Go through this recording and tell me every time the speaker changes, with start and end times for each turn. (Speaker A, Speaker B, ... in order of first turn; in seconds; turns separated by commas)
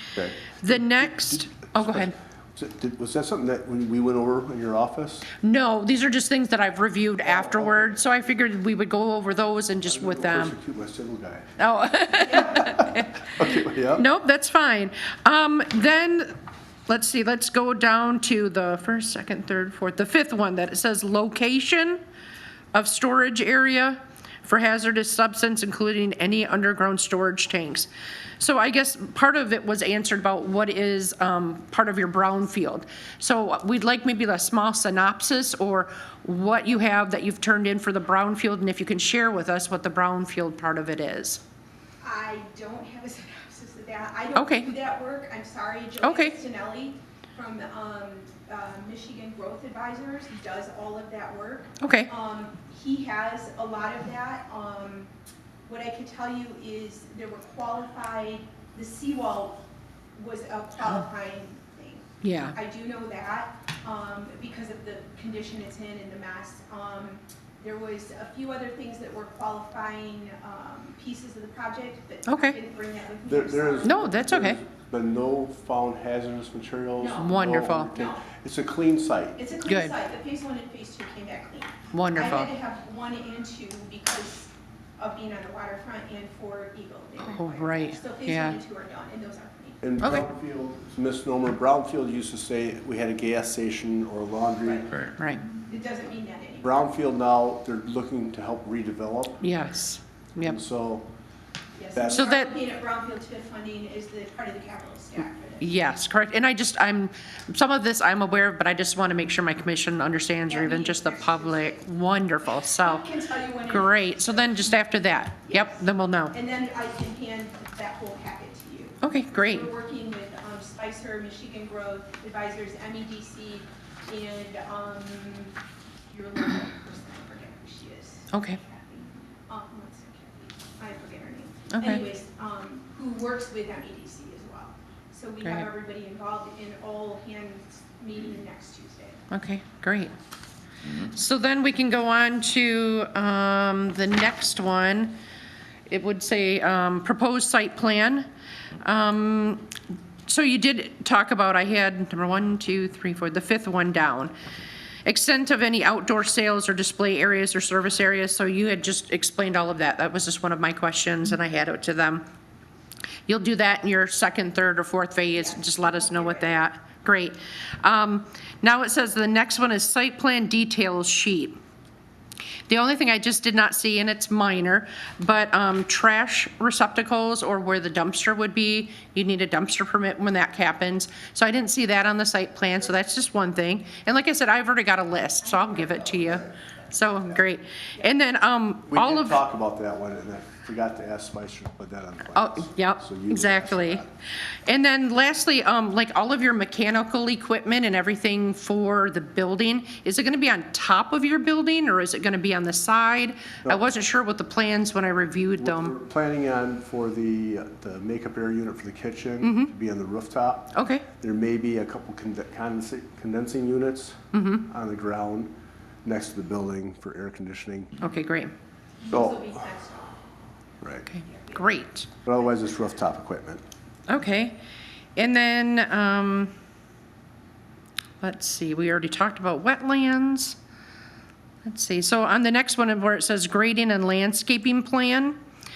Speaker A: 0.1-5.3, Speaker B: 0.5-2.1, Speaker B: 5.4-10.5, Speaker A: 7.2-8.0, Speaker A: 9.8-11.5, Speaker B: 11.6-16.3, Speaker C: 12.3-12.6, Speaker A: 12.5-14.0, Speaker B: 16.9-22.0, Speaker B: 22.7-27.9, Speaker B: 28.4-41.4, Speaker C: 42.0-55.1, Speaker B: 44.3-44.7, Speaker B: 46.0-46.4, Speaker B: 51.8-52.1, Speaker C: 55.6-59.6, Speaker C: 60.1-74.0, Speaker B: 62.2-62.5, Speaker B: 72.3-72.6, Speaker A: 73.3-79.4, Speaker B: 73.8-74.6, Speaker C: 77.0-78.2, Speaker B: 77.2-77.9, Speaker C: 79.3-89.8, Speaker B: 79.7-79.9, Speaker B: 81.9-82.5, Speaker B: 87.2-88.6, Speaker A: 89.8-94.9, Speaker B: 95.2-95.5, Speaker C: 95.7-96.8, Speaker A: 96.6-99.4, Speaker B: 99.4-100.6, Speaker A: 100.4-101.0, Speaker C: 101.8-105.7, Speaker A: 101.9-102.2, Speaker B: 102.1-102.5, Speaker B: 105.6-113.0, Speaker C: 110.5-111.8, Speaker C: 112.5-114.7, Speaker B: 113.7-116.3, Speaker C: 115.4-125.5, Speaker B: 119.0-119.7, Speaker C: 126.1-139.2, Speaker B: 128.3-128.6, Speaker B: 131.7-132.1, Speaker B: 135.4-135.7, Speaker B: 139.3-140.1, Speaker B: 140.9-145.1, Speaker B: 145.9-148.2, Speaker B: 148.8-149.7, Speaker B: 150.2-154.3, Speaker B: 155.0-162.2, Speaker B: 163.3-171.6, Speaker C: 165.3-166.6, Speaker B: 172.7-189.4, Speaker C: 185.4-187.3, Speaker A: 188.9-194.1, Speaker B: 192.3-194.0, Speaker B: 194.7-205.9, Speaker A: 205.6-215.5, Speaker B: 209.4-209.7, Speaker B: 210.7-211.1, Speaker B: 214.3-214.7, Speaker A: 216.0-217.9, Speaker B: 218.0-218.5, Speaker C: 219.0-220.2, Speaker A: 219.1-219.6, Speaker A: 220.8-221.1, Speaker B: 221.1-222.1, Speaker C: 221.2-221.8, Speaker A: 222.2-223.6, Speaker B: 224.1-224.6, Speaker B: 225.2-226.5, Speaker B: 228.2-230.6, Speaker B: 231.6-235.4